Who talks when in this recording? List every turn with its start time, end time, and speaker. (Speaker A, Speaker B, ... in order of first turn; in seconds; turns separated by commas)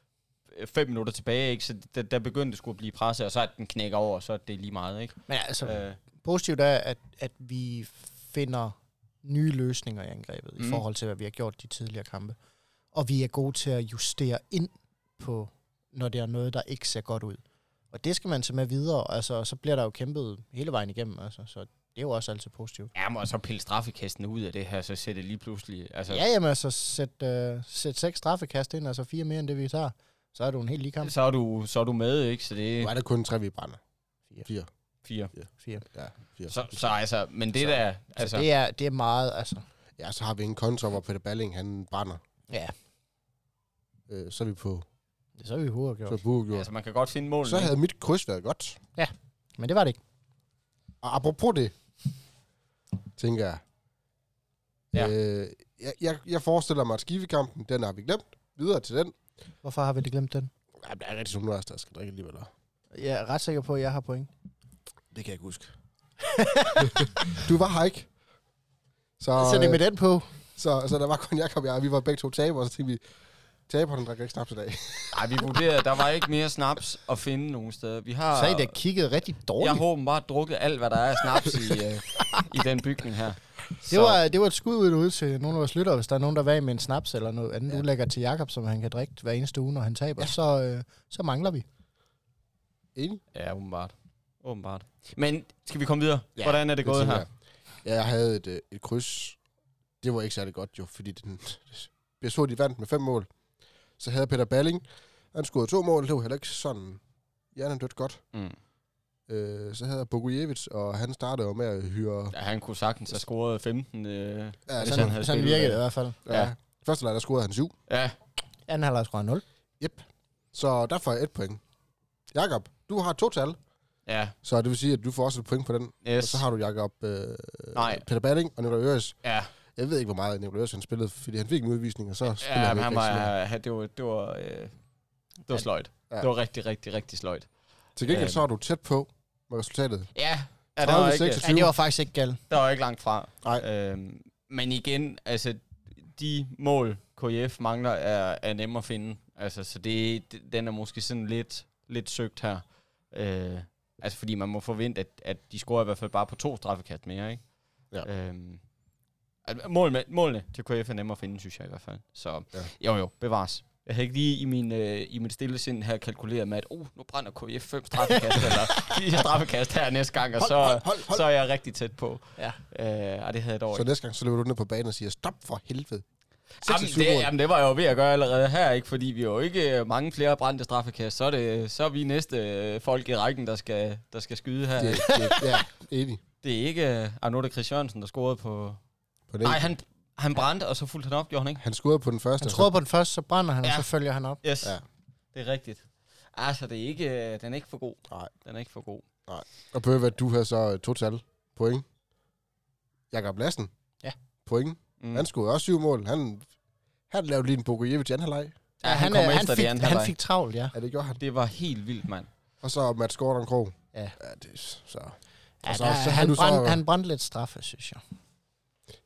Speaker A: 0.5-6.0, Speaker B: 5.3-12.4, Speaker B: 12.9-17.4, Speaker B: 17.9-22.9, Speaker A: 22.9-26.2, Speaker B: 26.1-31.1, Speaker A: 31.0-32.9, Speaker C: 32.8-33.8, Speaker A: 35.0-35.3, Speaker C: 35.4-36.9, Speaker B: 35.6-35.8, Speaker A: 36.5-38.5, Speaker B: 38.1-39.6, Speaker C: 40.0-42.2, Speaker C: 44.1-44.9, Speaker B: 45.4-46.2, Speaker C: 46.1-46.7, Speaker A: 46.5-47.7, Speaker C: 47.4-48.8, Speaker B: 49.0-50.0, Speaker C: 51.0-51.7, Speaker C: 53.2-53.6, Speaker C: 54.9-59.1, Speaker B: 59.6-60.5, Speaker C: 60.8-62.5, Speaker B: 62.9-64.3, Speaker C: 65.1-65.7, Speaker B: 66.2-67.1, Speaker C: 66.8-68.1, Speaker C: 69.2-69.8, Speaker B: 69.3-70.3, Speaker C: 70.5-73.0, Speaker C: 73.7-75.6, Speaker A: 75.1-78.8, Speaker B: 78.3-79.8, Speaker A: 79.6-84.2, Speaker B: 83.9-91.6, Speaker C: 92.9-93.2, Speaker A: 93.3-97.2, Speaker C: 96.4-97.3, Speaker C: 97.8-99.4, Speaker C: 100.0-103.3, Speaker C: 104.0-107.0, Speaker C: 107.5-108.2, Speaker C: 109.3-112.3, Speaker A: 112.3-116.5, Speaker C: 114.7-115.2, Speaker B: 114.8-116.2, Speaker C: 116.2-117.7, Speaker A: 117.9-118.2, Speaker B: 118.7-119.4, Speaker C: 119.8-121.6, Speaker C: 122.3-123.6, Speaker A: 124.1-124.3, Speaker C: 124.4-129.2, Speaker A: 126.0-126.4, Speaker A: 127.7-128.0, Speaker A: 129.2-129.5, Speaker C: 129.8-133.3, Speaker A: 132.4-134.7, Speaker A: 135.5-137.5, Speaker C: 138.0-140.1, Speaker A: 138.1-138.4, Speaker A: 140.1-141.4, Speaker C: 140.8-141.7, Speaker B: 141.4-142.4, Speaker A: 142.5-157.4, Speaker A: 158.0-158.6, Speaker A: 159.4-173.8, Speaker B: 168.4-168.9, Speaker C: 170.4-171.2, Speaker C: 173.7-176.0, Speaker C: 176.6-177.3, Speaker A: 176.6-185.1, Speaker C: 184.8-186.2, Speaker B: 185.1-185.4, Speaker A: 186.4-188.8, Speaker C: 189.3-189.7, Speaker A: 189.4-191.6, Speaker C: 191.6-192.7, Speaker B: 192.4-194.4, Speaker A: 194.4-194.8, Speaker A: 195.3-195.8, Speaker A: 196.3-199.0, Speaker C: 199.3-201.8, Speaker C: 203.1-203.7, Speaker C: 204.4-206.5, Speaker A: 205.0-205.3, Speaker C: 207.1-208.6, Speaker A: 208.8-210.1, Speaker B: 208.8-210.7, Speaker C: 210.7-211.2, Speaker A: 211.2-212.3, Speaker C: 212.6-216.8, Speaker B: 215.6-218.0